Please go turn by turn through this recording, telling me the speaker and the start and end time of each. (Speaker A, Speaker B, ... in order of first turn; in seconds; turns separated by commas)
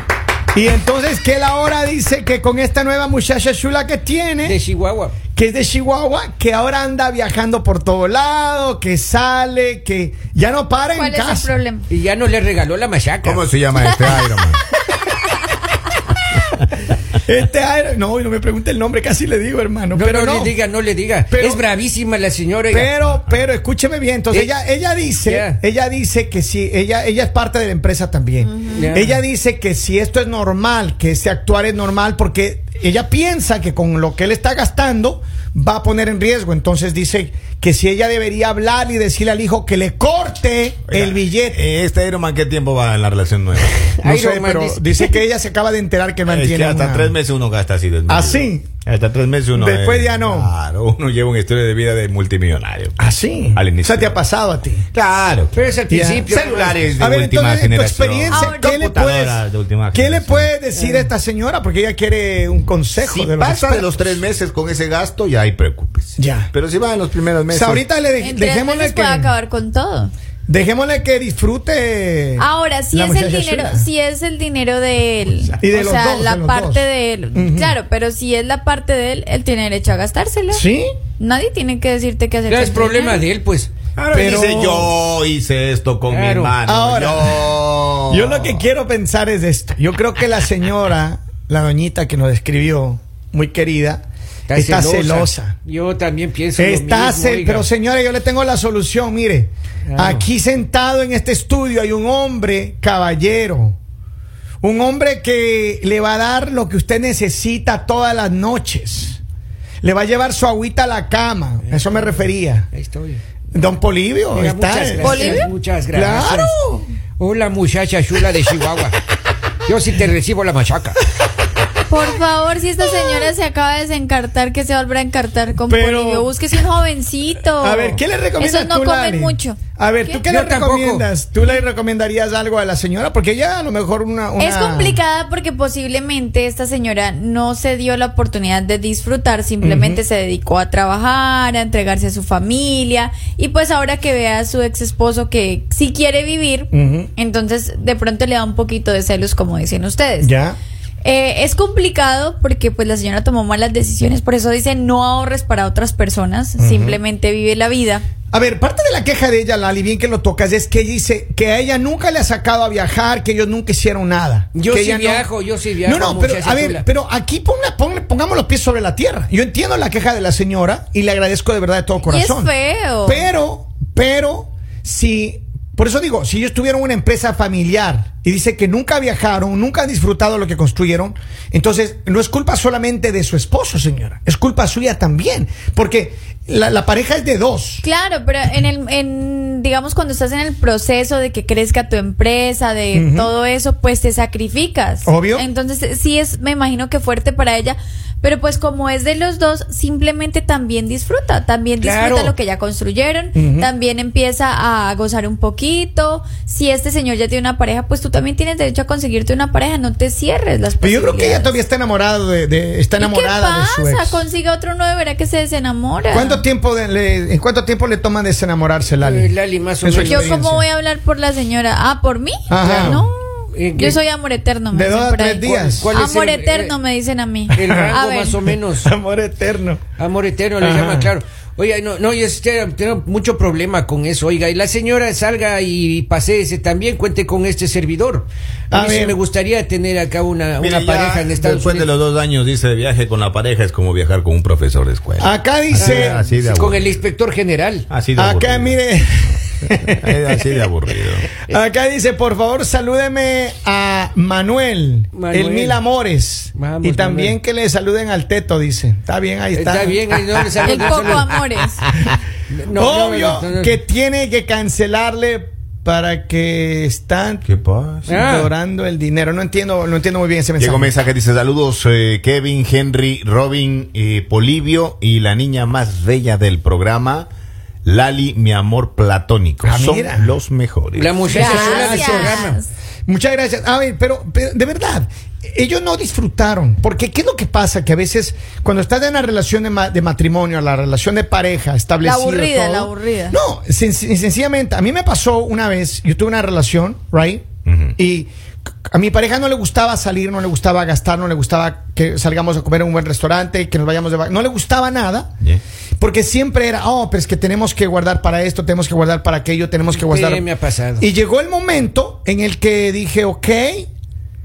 Speaker A: 0.5-4.6, Speaker B: 4.4-5.2, Speaker A: 5.3-11.5, Speaker C: 10.9-11.9, Speaker B: 11.9-13.5, Speaker D: 13.2-14.6, Speaker A: 17.2-20.5, Speaker B: 19.9-22.9, Speaker A: 21.3-21.6, Speaker A: 22.7-41.6, Speaker B: 25.2-25.6, Speaker C: 28.4-28.9, Speaker B: 28.7-29.2, Speaker D: 40.9-43.9, Speaker B: 44.0-45.2, Speaker A: 44.0-47.1, Speaker D: 46.3-53.0, Speaker A: 48.1-48.7, Speaker A: 49.5-50.5, Speaker A: 53.0-54.9, Speaker D: 53.5-54.2, Speaker D: 54.9-55.6, Speaker B: 55.5-56.8, Speaker A: 55.9-64.2, Speaker D: 56.3-60.5, Speaker C: 58.3-58.7, Speaker B: 60.7-61.1, Speaker D: 63.0-67.8, Speaker A: 66.2-66.5, Speaker A: 67.5-69.3, Speaker C: 68.2-70.1, Speaker A: 70.5-73.9, Speaker C: 72.4-80.6, Speaker A: 75.4-77.8, Speaker A: 80.5-80.9, Speaker C: 81.2-83.2, Speaker B: 82.5-83.7, Speaker D: 84.0-88.6, Speaker A: 84.1-84.9, Speaker B: 86.1-86.5, Speaker A: 86.6-87.6, Speaker A: 88.1-95.5, Speaker B: 94.5-97.7, Speaker A: 96.6-103.8, Speaker B: 99.9-100.2, Speaker A: 104.6-109.2, Speaker A: 109.8-112.7, Speaker B: 111.6-113.2, Speaker A: 113.5-116.9, Speaker B: 114.3-116.5, Speaker C: 115.0-115.5, Speaker B: 117.2-119.0, Speaker B: 119.7-121.0, Speaker C: 121.9-130.2, Speaker A: 125.6-126.7, Speaker A: 127.6-135.0, Speaker B: 130.3-131.1, Speaker C: 134.4-150.3, Speaker A: 139.6-140.0, Speaker A: 146.7-147.1, Speaker A: 150.2-150.6, Speaker C: 151.0-158.0, Speaker A: 156.6-157.0, Speaker A: 158.3-165.3, Speaker B: 164.5-166.8, Speaker A: 165.8-172.5, Speaker C: 172.0-173.2, Speaker A: 173.0-187.8, Speaker C: 187.8-211.6, Speaker A: 192.9-193.3, Speaker A: 195.0-195.4, Speaker B: 201.8-202.3, Speaker A: 203.3-203.7, Speaker A: 210.8-214.2, Speaker C: 213.0-216.4, Speaker A: 216.1-220.7, Speaker B: 219.0-220.3, Speaker C: 220.0-228.3, Speaker A: 222.5-223.1, Speaker B: 222.6-224.0, Speaker A: 224.7-225.9, Speaker B: 225.8-226.7, Speaker A: 227.5-227.9, Speaker B: 227.5-228.9, Speaker A: 228.4-229.8, Speaker B: 230.0-241.9, Speaker A: 230.6-231.1, Speaker A: 238.7-239.2, Speaker D: 240.6-247.0, Speaker A: 245.2-246.2, Speaker B: 245.7-247.9, Speaker D: 247.9-248.8, Speaker A: 248.2-250.1, Speaker D: 249.7-251.3, Speaker A: 251.5-260.0, Speaker B: 255.1-255.8, Speaker B: 256.5-257.4, Speaker B: 259.5-261.3, Speaker C: 260.6-261.8, Speaker A: 260.8-261.0, Speaker B: 262.5-263.8, Speaker A: 262.7-267.4, Speaker D: 267.4-268.1, Speaker A: 268.1-270.9, Speaker B: 268.1-268.5, Speaker D: 270.6-277.3, Speaker D: 277.8-281.9, Speaker A: 279.6-280.3, Speaker B: 280.9-282.6, Speaker A: 281.3-282.5, Speaker C: 281.3-282.7, Speaker A: 283.1-298.3, Speaker C: 292.0-293.4, Speaker D: 297.6-297.9, Speaker A: 298.9-305.3, Speaker A: 306.0-310.4, Speaker B: 309.9-311.1, Speaker A: 311.0-313.9